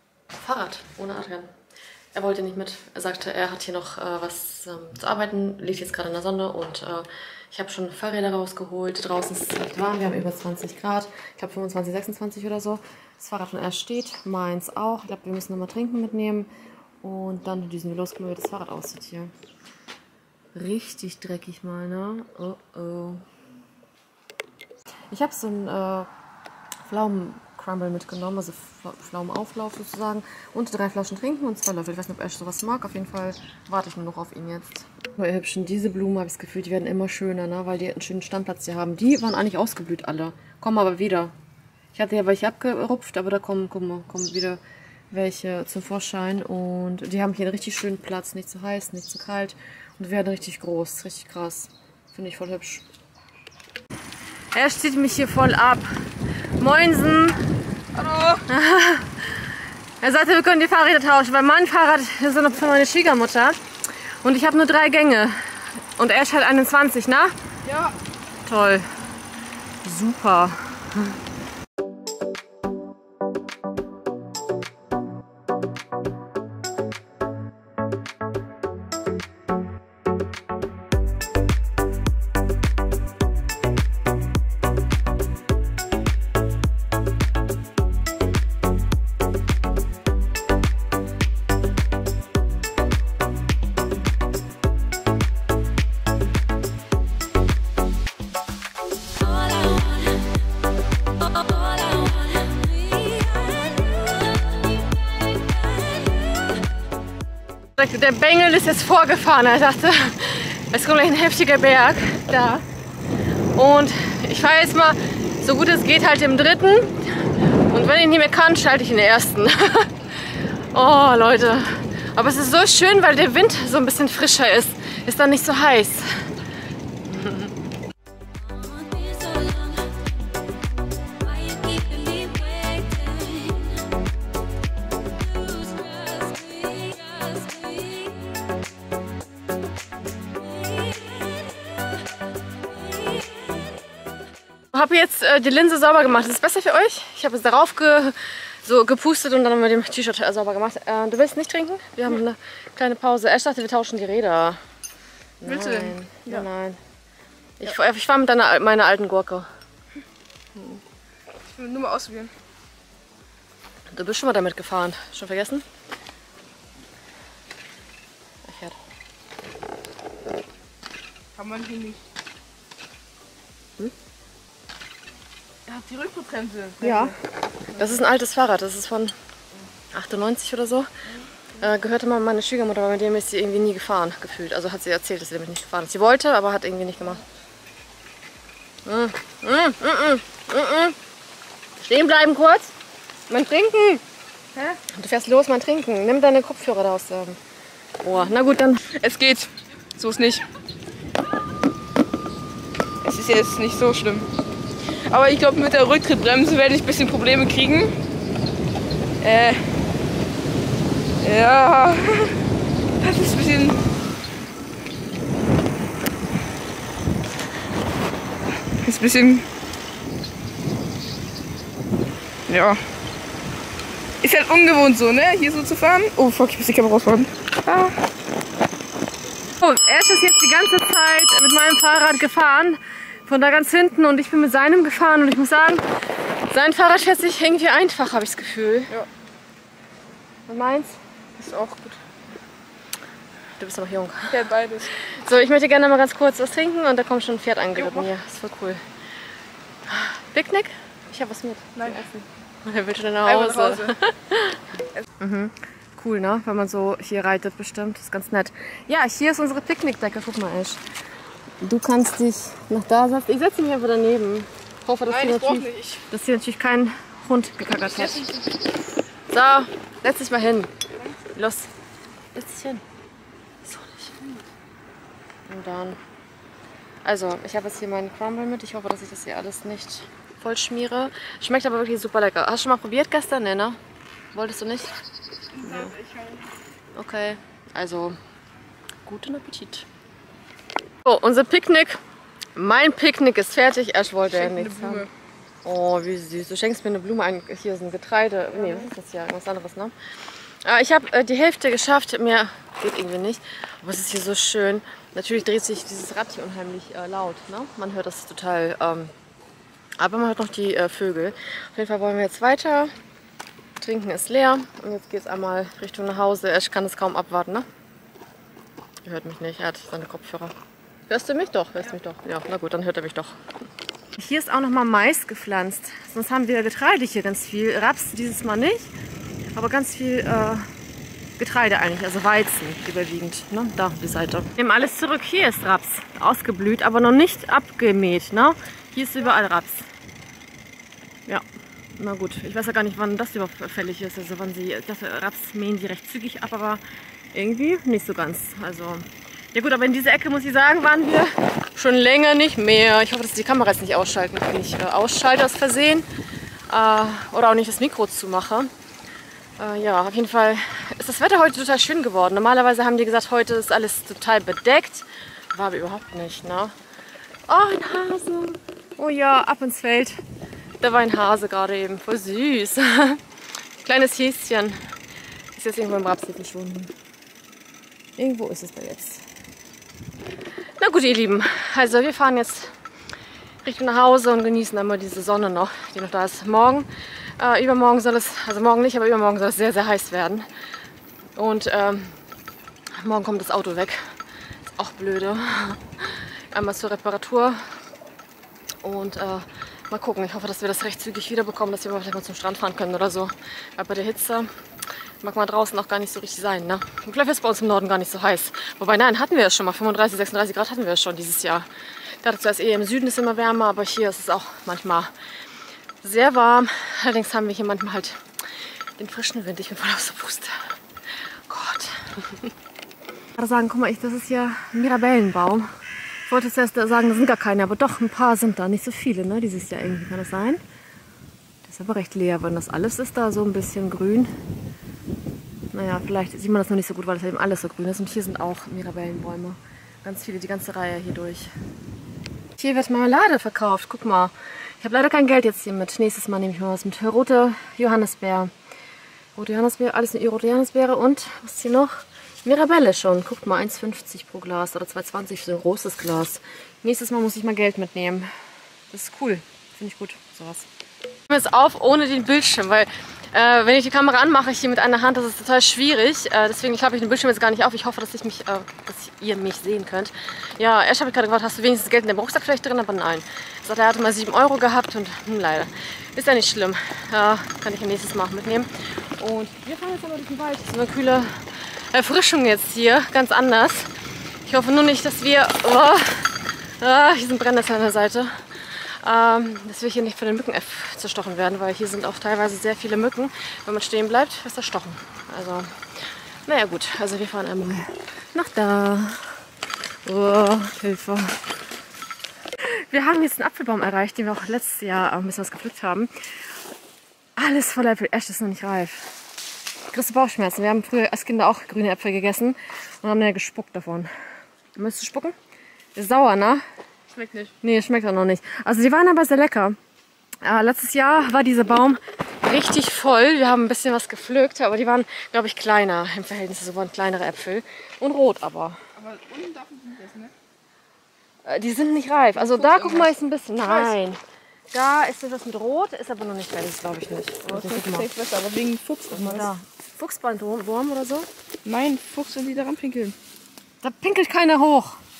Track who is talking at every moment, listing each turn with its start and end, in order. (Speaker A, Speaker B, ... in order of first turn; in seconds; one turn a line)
Speaker A: 0.3-1.5
Speaker A: 2.1-16.5
Speaker A: 17.0-19.3
Speaker A: 20.5-23.2
Speaker A: 25.1-26.1
Speaker A: 26.9-41.3
Speaker A: 41.9-52.8
Speaker A: 54.5-55.9
Speaker A: 56.6-57.4
Speaker B: 57.9-58.4
Speaker A: 58.5-65.4
Speaker A: 66.0-67.3
Speaker B: 67.6-68.0
Speaker A: 68.4-68.9
Speaker A: 69.8-71.2
Speaker B: 99.2-100.3
Speaker B: 101.2-104.6
Speaker B: 105.4-106.6
Speaker A: 107.8-112.7
Speaker A: 113.5-126.3
Speaker A: 127.0-127.5
Speaker B: 128.5-129.9
Speaker B: 131.2-133.8
Speaker B: 135.3-138.2
Speaker B: 140.6-141.6
Speaker A: 144.7-154.6
Speaker A: 155.4-156.8
Speaker B: 155.4-156.5
Speaker A: 157.6-159.5
Speaker A: 160.6-160.8
Speaker B: 161.5-162.3
Speaker A: 163.9-165.7
Speaker A: 168.4-168.8
Speaker B: 171.3-172.0
Speaker B: 175.7-177.1
Speaker A: 176.8-177.2
Speaker A: 177.7-179.1
Speaker A: 179.9-180.9
Speaker A: 181.6-187.2
Speaker A: 188.8-191.0
Speaker A: 191.8-192.7
Speaker A: 193.3-194.0
Speaker B: 194.5-194.8
Speaker A: 194.8-197.4
Speaker A: 198.0-198.8
Speaker B: 198.8-200.4
Speaker B: 203.0-204.3
Speaker B: 204.8-207.9
Speaker B: 209.2-209.7
Speaker B: 211.2-212.4
Speaker B: 213.0-213.8
Speaker B: 218.7-219.4
Speaker B: 222.5-222.8
Speaker B: 224.2-228.0
Speaker A: 229.6-238.9
Speaker A: 240.5-241.0
Speaker B: 241.4-242.0
Speaker A: 243.6-248.8
Speaker B: 244.3-244.9
Speaker B: 247.8-248.1
Speaker A: 249.9-260.8
Speaker B: 251.8-252.0
Speaker B: 253.2-253.9
Speaker A: 261.6-268.3
Speaker B: 265.1-266.0
Speaker B: 267.9-268.5
Speaker A: 269.3-271.7
Speaker A: 272.3-272.8
Speaker A: 273.6-274.4
Speaker A: 275.5-276.0
Speaker A: 277.0-283.8
Speaker A: 284.3-285.0
Speaker A: 285.6-285.9
Speaker B: 285.6-286.4
Speaker A: 286.9-288.2
Speaker A: 289.0-289.9
Speaker A: 291.0-292.0
Speaker A: 292.6-295.1
Speaker B: 294.3-295.1
Speaker A: 295.6-299.9
Speaker B: 298.6-298.9
Speaker A: 300.6-309.1
Speaker A: 310.0-312.9
Speaker A: 313.8-317.6
Speaker A: 319.0-320.5
Speaker A: 321.1-323.4
Speaker A: 324.1-328.9
Speaker A: 329.5-330.7
Speaker A: 331.4-339.9
Speaker A: 341.9-346.8
Speaker A: 347.3-356.1
Speaker A: 356.7-358.7
Speaker A: 359.6-366.7
Speaker A: 367.5-370.2
Speaker A: 370.8-373.2
Speaker A: 373.8-374.8
Speaker A: 375.5-376.9
Speaker A: 378.2-379.2
Speaker A: 380.8-382.7
Speaker A: 383.6-390.5
Speaker A: 391.4-392.2
Speaker A: 392.9-394.1
Speaker A: 394.6-397.7
Speaker A: 398.8-404.5
Speaker A: 405.2-411.7
Speaker A: 412.2-415.1
Speaker A: 416.0-420.7
Speaker A: 421.5-422.5
Speaker A: 423.4-425.7
Speaker A: 426.2-430.6
Speaker A: 431.6-434.3
Speaker A: 435.7-441.5
Speaker A: 442.6-448.5
Speaker A: 449.3-458.3
Speaker A: 458.9-460.7
Speaker A: 461.3-483.9
Speaker A: 484.4-495.8
Speaker A: 496.4-499.4
Speaker A: 500.0-501.5
Speaker A: 502.6-506.1
Speaker A: 507.4-509.1
Speaker A: 509.9-514.1
Speaker A: 514.7-515.4
Speaker A: 515.9-516.6
Speaker B: 517.1-517.5
Speaker A: 517.6-519.8
Speaker A: 520.4-528.8
Speaker B: 529.0-530.3
Speaker A: 531.5-534.2
Speaker B: 532.4-534.0
Speaker A: 534.7-538.1
Speaker B: 537.5-539.5
Speaker A: 539.1-541.3
Speaker B: 541.6-543.1
Speaker A: 543.8-545.0